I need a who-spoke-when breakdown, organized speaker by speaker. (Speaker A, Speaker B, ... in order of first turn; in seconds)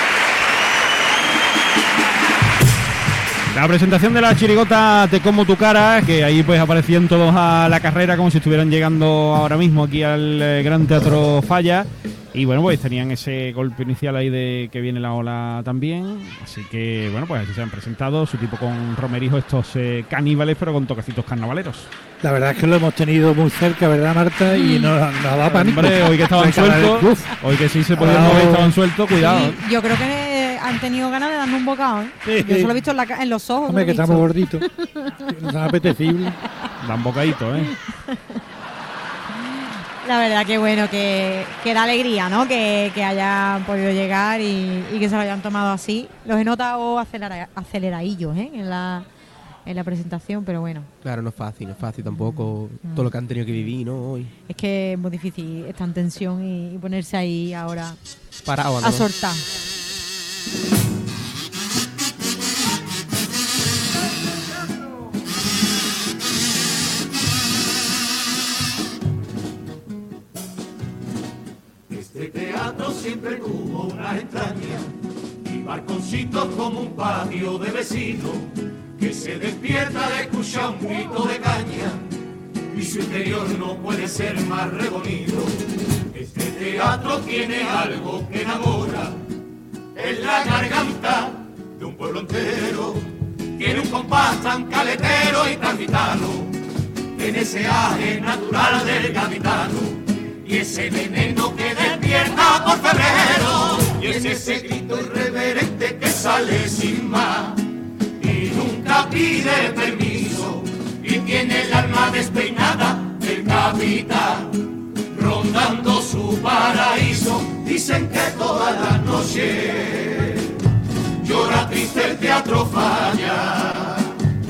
Speaker A: 3.5-21.9, 25.5-29.6, 36.8-37.7
Speaker B: 22.2-27.3, 27.9-28.8, 32.2-32.7, 33.7-34.6, 35.3-36.4
Speaker C: 24.6-24.9, 29.2-35.6, 37.6-38.4, 40.0-49.1, 49.6-50.9, 52.8-53.1, 54.5-58.0, 58.8-59.4
Speaker D: 51.0-54.3, 58.4-59.1
Speaker E: 71.9-74.9, 75.4-82.0, 82.7-89.2, 90.0-96.6, 97.2-107.7, 108.2-120.6, 121.2-124.2